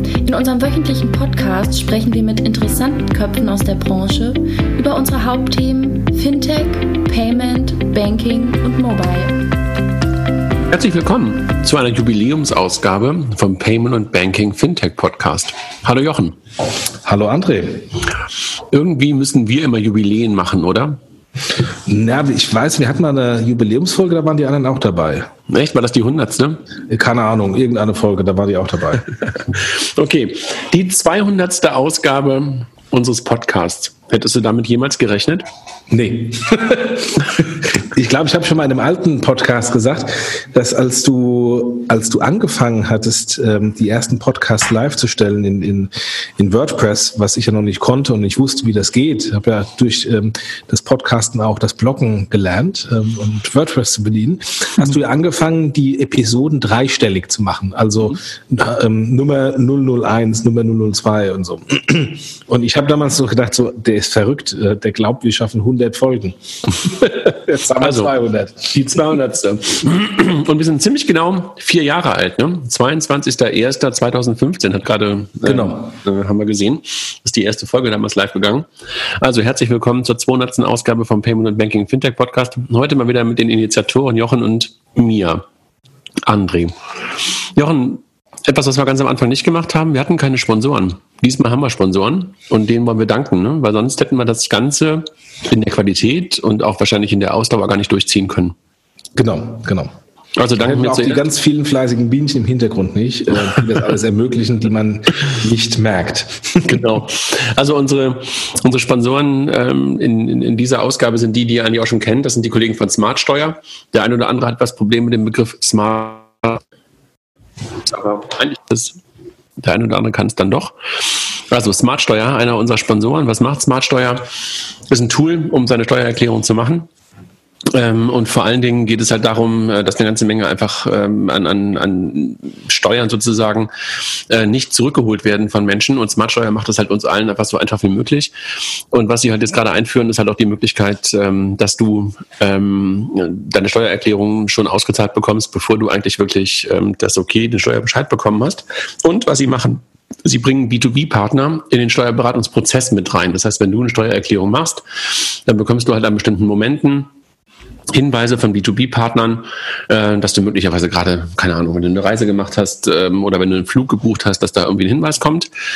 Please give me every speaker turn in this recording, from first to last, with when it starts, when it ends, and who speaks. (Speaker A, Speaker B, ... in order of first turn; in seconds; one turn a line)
Speaker A: 0.2-9.6
Speaker B: 10.7-16.4
Speaker C: 17.1-17.9
Speaker B: 18.7-21.0
Speaker C: 21.9-25.3
Speaker B: 25.5-26.6
Speaker C: 26.9-29.1
Speaker B: 29.5-35.5
Speaker C: 35.9-69.6
Speaker B: 67.8-68.1
Speaker B: 69.6-78.7
Speaker C: 75.5-75.9
Speaker B: 79.2-85.4
Speaker B: 86.3-86.8
Speaker B: 87.5-98.5
Speaker C: 99.2-99.9
Speaker B: 100.4-101.2
Speaker C: 100.6-106.8
Speaker B: 106.7-116.6
Speaker B: 117.8-119.0
Speaker B: 119.6-124.3
Speaker B: 124.9-126.9
Speaker B: 127.7-133.7
Speaker B: 134.3-138.3
Speaker B: 138.9-157.1
Speaker B: 157.9-165.5